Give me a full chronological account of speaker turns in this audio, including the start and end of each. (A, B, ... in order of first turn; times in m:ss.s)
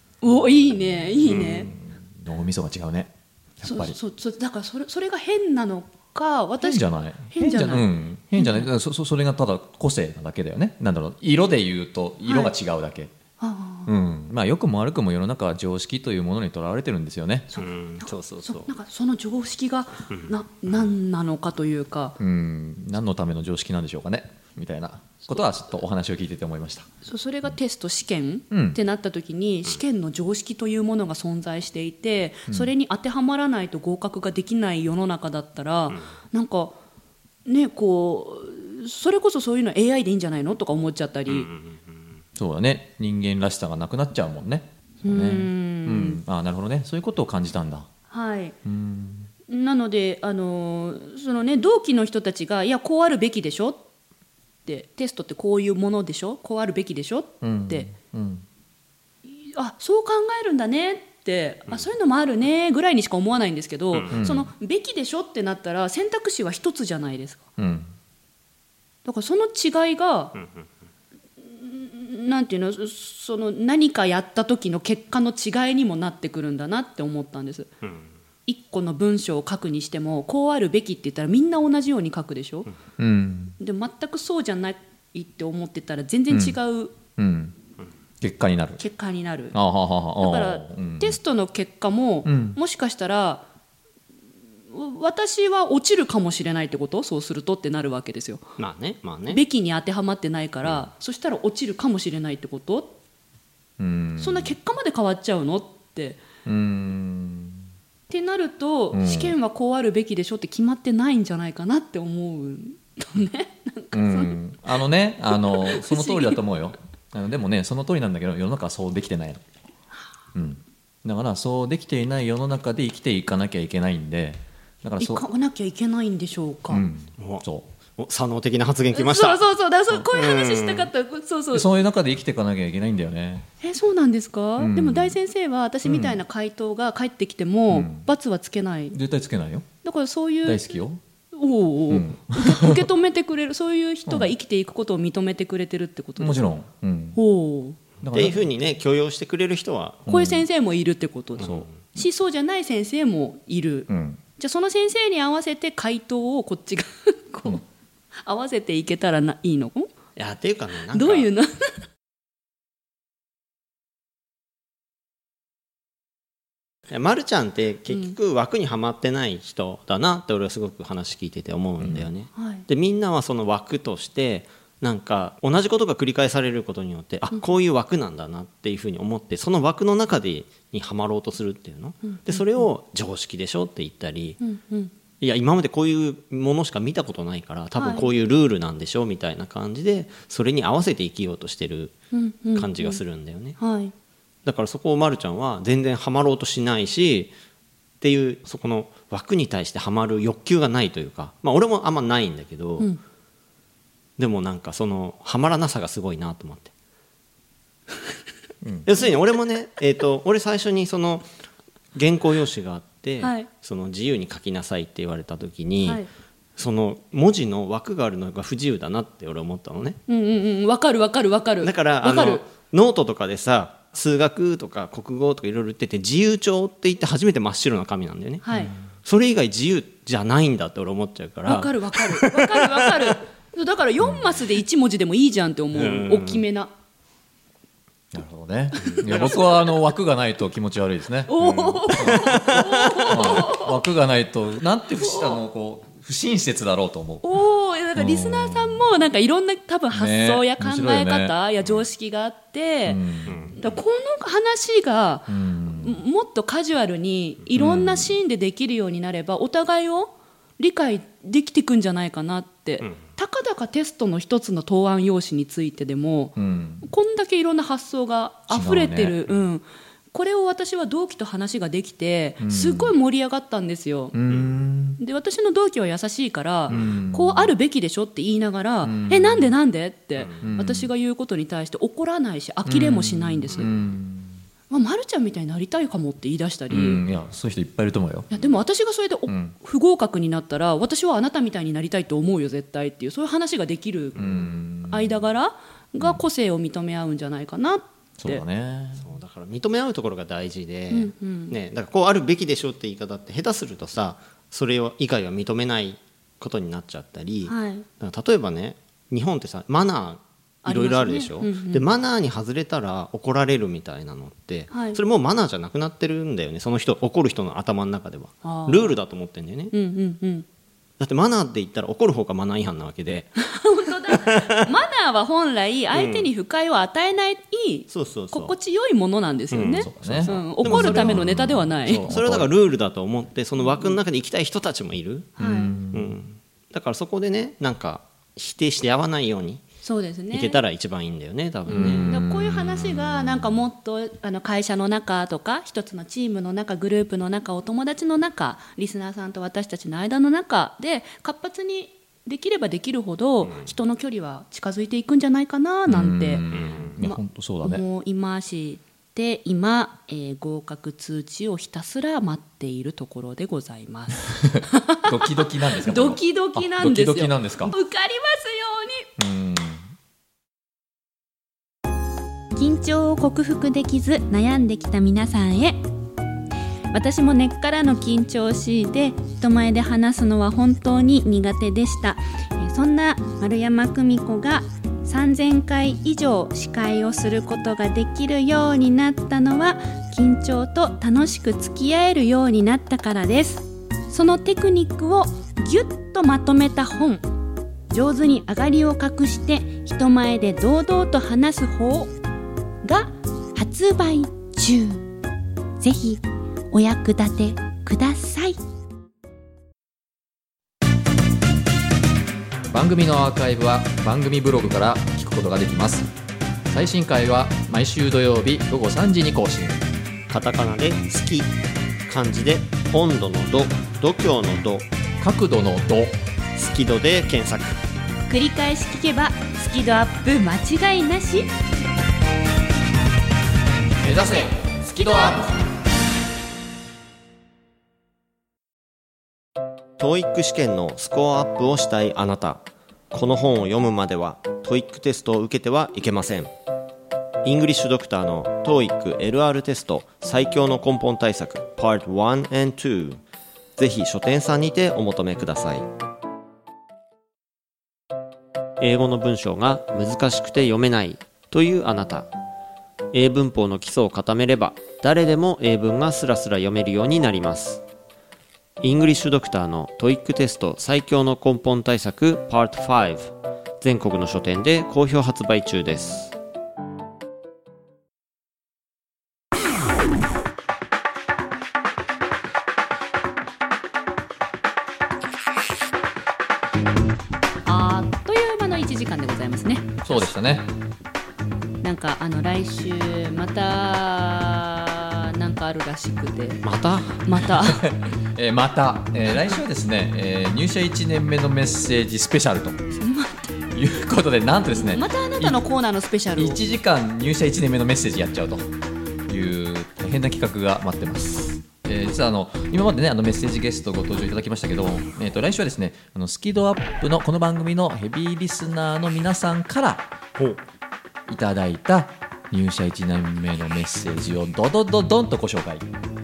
0:00.2-0:01.7 A
0:01.2-0:01.7 B
0:01.2-0:04.0 C
0:03.6-0:08.7 A
0:06.6-0:13.1 C
0:12.2-0:12.5 A
0:13.4-0:13.9 A
0:13.9-0:17.5 C
0:17.5-0:22.2 A
0:17.6-0:18.7 B
0:22.2-0:26.9 C
0:27.0-0:36.8 A
0:28.5-0:28.8 C
0:37.4-0:41.5 A
0:41.3-0:42.0 B
0:42.4-0:47.9 C
0:45.0-0:46.2 A
0:48.1-0:48.5 A
0:48.6-0:49.3 C
0:49.5-0:53.8 A
0:54.6-0:57.9 A
0:57.4-0:58.4 C
0:59.4-1:07.4 A
1:04.1-1:04.5 C
1:07.6-1:07.9 C
1:09.0-1:10.3 A
1:11.4-1:17.7 A
1:18.5-1:22.7 A
1:23.0-1:23.6 C
1:23.6-1:27.0 A
1:26.3-1:26.6 C
1:27.2-1:27.6 C
1:28.2-1:28.8 C
1:28.8-1:29.5 A
1:29.5-1:31.2 C
1:30.2-1:33.4 A
1:32.2-1:32.6 C
1:34.7-1:38.4 A
1:38.6-1:39.4 B
1:39.3-1:42.9 A
1:43.8-1:44.5 C
1:44.2-1:46.2 A
1:46.4-1:47.6 C
1:48.1-1:54.4 A
1:48.9-1:49.4 C
1:53.9-1:59.4 C
1:55.3-1:56.4 A
2:00.3-2:05.2 C
2:05.0-2:06.8 A
2:06.7-2:07.7 C
2:07.2-2:07.4 B
2:08.0-2:09.4 B
2:08.9-2:11.7 A
2:10.0-2:10.9 B
2:11.5-2:13.5 C
2:13.6-2:19.0 A
2:14.6-2:15.2 C
2:15.8-2:16.2 C
2:17.7-2:18.1 C
2:18.9-2:19.7 C
2:19.8-2:20.6 A
2:20.4-2:21.0 C
2:21.3-2:26.5 A
2:21.9-2:22.8 C
2:24.1-2:24.3 C
2:26.2-2:27.2 C
2:27.1-2:27.8 A
2:28.0-2:28.4 C
2:28.1-2:30.0 B
2:30.1-2:30.4 C
2:30.1-2:37.6 A
2:31.4-2:31.7 B
2:33.9-2:34.2 C
2:38.2-2:39.9 A
2:40.2-2:41.3 B
2:40.9-2:41.7 A
2:46.9-3:04.4 B
2:51.8-2:52.1 C
2:52.4-2:52.6 A
3:02.0-3:02.6 A
3:04.4-3:04.9 A
3:05.2-3:11.9 B
3:07.8-3:08.1 A
3:12.1-3:13.0 A
3:12.5-3:13.6 B
3:13.6-3:13.9 A
3:14.4-3:17.3 B
3:18.0-3:22.9 B
3:24.2-3:26.7 B
3:28.6-3:28.9 C
3:28.8-3:31.3 B
3:31.9-3:36.0 B
3:33.2-3:33.5 A
3:36.6-3:40.0 B
3:40.1-3:42.4 A
3:41.6-3:48.4 B
3:48.4-3:48.7 A
3:49.0-3:53.1 B
3:51.4-3:56.7 A
3:54.0-3:54.4 C
3:55.7-3:56.4 B
3:58.1-4:07.3 C
3:58.8-3:59.4 A
3:58.8-3:59.4 B
4:01.3-4:03.8 A
4:01.5-4:03.2 B
4:05.0-4:05.4 A
4:07.2-4:13.0 A
4:08.0-4:08.9 C
4:09.9-4:11.4 C
4:12.8-4:13.5 C
4:13.3-4:13.6 B
4:13.6-4:34.1 A
4:15.3-4:16.0 C
4:17.5-4:18.1 C
4:26.4-4:26.8 C
4:28.5-4:29.2 C
4:32.4-4:32.9 C
4:34.1-4:35.0 C
4:35.0-4:43.7 A
4:36.7-4:37.5 C
4:36.7-4:37.0 B
4:38.8-4:39.5 C
4:40.2-4:40.5 B
4:40.4-4:40.9 C
4:42.6-4:44.4 C
4:44.7-4:47.0 A
4:46.7-4:48.3 C
4:48.3-4:54.2 A
4:49.3-4:49.5 C
4:54.2-4:54.4 B
4:54.2-4:55.2 C
4:54.8-4:58.4 A
4:58.2-4:59.0 C
4:59.0-5:19.7 B
5:00.9-5:01.5 A
5:07.4-5:07.8 A
5:10.6-5:11.8 A
5:14.7-5:15.0 A
5:18.4-5:19.0 A
5:19.7-5:20.4 A
5:21.0-5:23.3 B
5:23.4-5:32.1 A
5:24.1-5:24.6 B
5:25.9-5:26.3 B
5:27.9-5:28.5 B
5:29.5-5:31.3 B
5:29.7-5:32.5 C
5:31.9-5:35.3 B
5:35.4-5:35.7 A
5:35.4-5:36.1 C
5:35.9-5:39.6 B
5:39.8-5:40.6 A
5:40.3-5:42.1 B
5:41.7-5:56.4 A
5:41.7-5:43.2 C
5:55.8-5:57.8 C
5:56.5-5:57.0 B
5:57.0-6:09.1 A
6:04.4-6:07.7 C
6:09.2-6:09.9 C
6:12.5-6:15.8 A
6:16.9-6:37.2 A
6:37.9-6:42.1 A
6:42.8-6:45.1 A
6:45.8-6:48.6 A
6:52.7-6:56.1 C
6:56.7-6:59.8 C
7:00.3-7:01.5 B
7:02.1-7:04.9 B
7:05.2-7:06.2 C
7:06.6-7:07.8 B
7:08.3-7:11.5 A
7:14.0-7:15.4 C
7:20.0-7:26.5 B
7:27.4-7:33.2 B
7:33.8-7:35.9 B
7:38.8-7:42.3 B
7:43.1-7:47.8 B
7:48.8-7:56.3 B
8:07.6-8:10.3 A
8:10.0-8:10.7 C
8:11.8-8:16.6 A
8:16.6-8:17.2 B
8:17.2-8:17.9 A
8:17.6-8:22.8 C
8:22.9-8:23.5 A
8:23.7-8:25.6 C
8:24.7-8:26.6 A
8:26.4-8:28.7 C
8:29.3-8:40.1 C
8:41.3-8:45.8 C